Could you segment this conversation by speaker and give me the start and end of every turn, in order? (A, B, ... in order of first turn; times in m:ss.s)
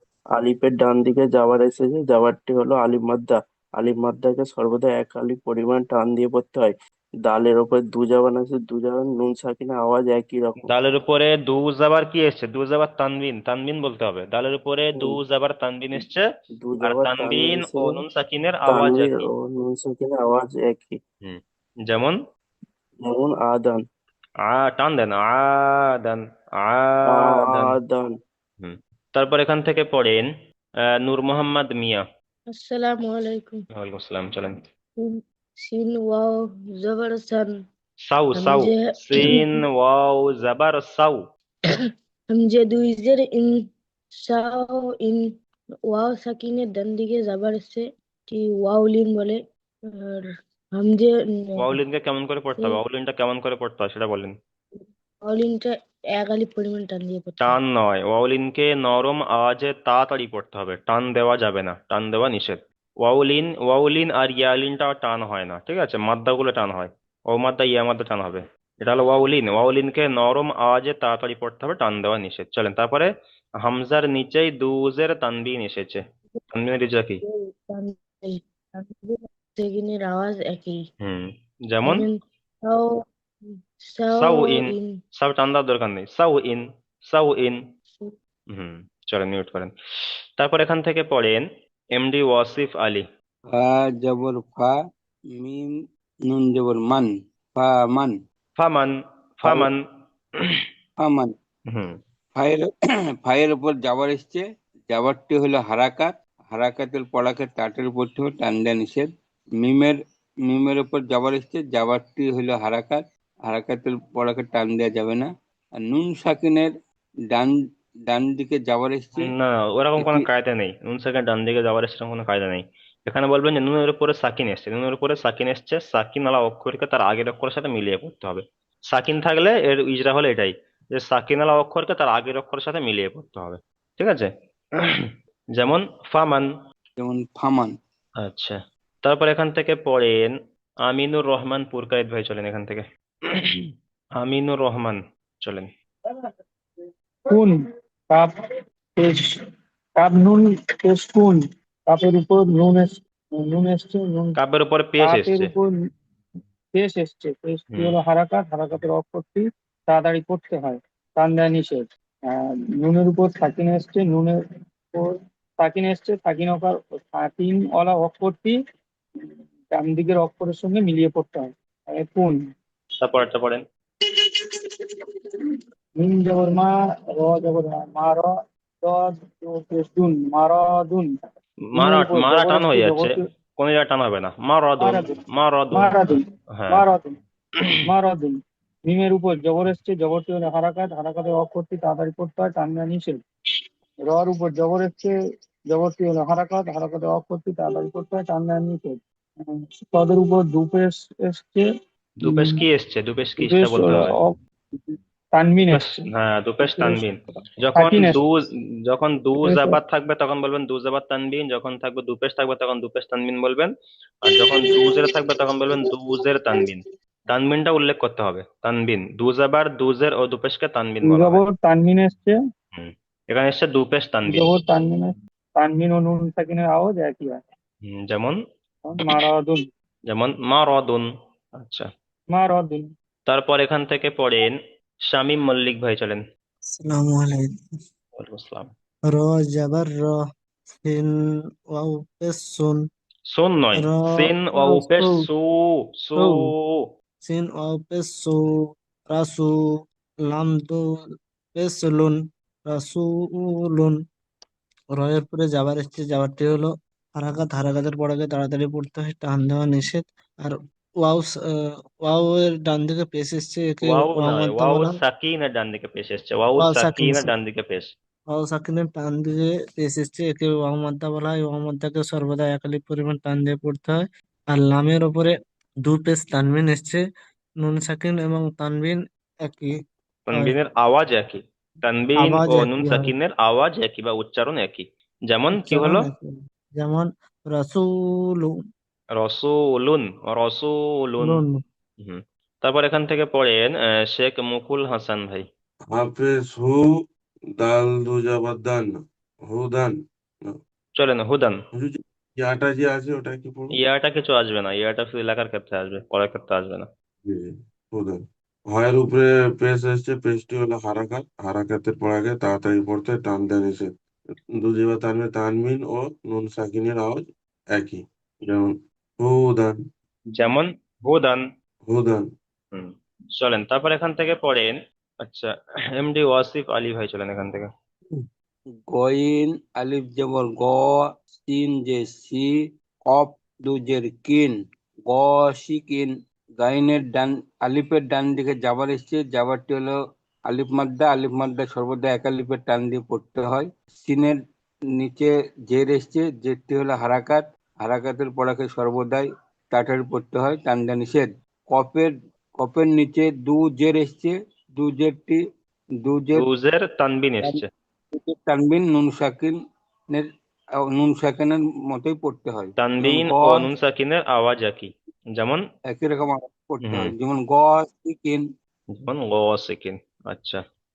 0:00.3-0:06.7 A
0:07.2-0:10.7 A
0:10.7-0:16.2 B
0:16.6-0:18.0 A
0:16.8-0:19.3 B
0:18.6-0:21.0 A
0:21.2-0:22.2 B
0:23.0-0:23.8 A
0:24.4-0:27.7 B
0:27.1-0:28.2 A
0:28.6-0:30.3 B
0:31.0-0:32.0 B
0:32.5-0:33.6 C
0:33.7-0:34.6 B
0:35.0-0:37.6 C
0:38.1-0:41.2 B
0:38.4-0:39.5 C
0:41.8-0:45.3 C
0:45.9-0:49.4 C
0:49.9-0:51.8 C
0:51.6-0:54.4 B
0:54.8-0:57.6 C
0:57.4-1:17.2 B
1:17.2-1:20.8 C
1:21.0-1:22.0 B
1:21.8-1:24.9 C
1:24.1-1:27.6 B
1:28.5-1:29.7 B
1:30.4-1:33.0 B
1:33.5-1:34.7 D
1:35.4-1:35.7 D
1:36.3-1:38.1 D
1:38.6-1:39.8 B
1:41.0-1:41.3 D
1:42.4-1:42.7 D
1:43.2-1:56.7 D
1:58.1-1:59.3 D
1:59.2-2:16.5 B
2:00.0-2:00.3 D
2:17.0-2:17.7 D
2:18.2-2:25.7 B
2:27.3-2:27.6 E
2:29.0-2:29.3 E
2:30.0-2:34.4 E
2:34.4-2:35.5 B
2:35.0-2:35.7 E
2:36.8-2:44.3 E
2:44.9-2:48.5 E
2:49.2-2:52.4 E
2:53.0-2:53.6 B
2:54.2-2:54.8 E
2:55.4-2:58.3 E
2:58.8-3:01.1 E
3:01.7-3:06.8 B
3:01.7-3:03.2 E
3:04.8-3:05.2 E
3:05.7-3:07.1 E
3:07.8-3:08.4 E
3:08.9-3:13.2 E
3:14.1-3:15.1 E
3:15.7-3:21.6 E
3:22.2-3:24.1 B
3:22.2-3:22.6 E
3:23.4-3:26.1 E
3:25.7-3:33.7 B
3:26.6-3:28.2 E
3:29.4-3:29.8 E
3:34.2-3:41.4 B
3:34.6-3:35.1 E
3:41.0-3:42.3 E
3:42.7-3:44.5 B
3:44.3-3:47.4 E
3:47.8-3:48.4 B
3:48.9-3:49.6 E
3:50.1-3:51.9 B
3:52.3-3:52.8 E
3:53.3-3:56.2 B
3:56.7-3:57.5 F
3:58.2-3:58.7 B
3:59.1-4:00.2 F
4:00.8-4:01.1 F
4:01.7-4:02.8 F
4:03.3-4:06.8 B
4:03.8-4:05.1 F
4:07.2-4:08.4 F
4:09.1-4:09.5 F
4:10.3-4:10.8 F
4:11.5-4:14.0 F
4:15.0-4:21.4 F
4:22.1-4:24.9 F
4:23.8-4:27.9 B
4:26.6-4:27.3 F
4:28.3-4:34.0 F
4:34.5-4:37.0 F
4:37.6-4:39.8 F
4:40.3-4:46.0 B
4:42.2-4:43.1 F
4:45.6-4:47.8 F
4:49.2-4:51.4 B
4:51.2-4:51.6 F
4:52.0-4:55.5 B
4:55.9-4:56.9 G
4:57.6-4:59.9 G
5:01.0-5:01.6 B
5:01.7-5:03.7 G
5:03.8-5:06.9 B
5:07.2-5:08.2 G
5:08.7-5:13.9 G
5:14.6-5:19.8 G
5:20.3-5:21.4 B
5:21.9-5:22.3 G
5:22.7-5:25.5 B
5:26.0-5:27.7 B
5:28.9-5:32.5 D
5:33.1-5:34.5 D
5:35.1-5:39.9 D
5:40.5-5:44.4 D
5:45.0-5:55.4 D
5:56.0-5:56.4 D
5:56.4-5:57.7 B
5:58.1-5:59.5 D
6:00.9-6:03.7 D
6:02.8-6:05.6 B
6:05.9-6:08.4 D
6:06.9-6:07.1 B
6:08.9-6:10.6 B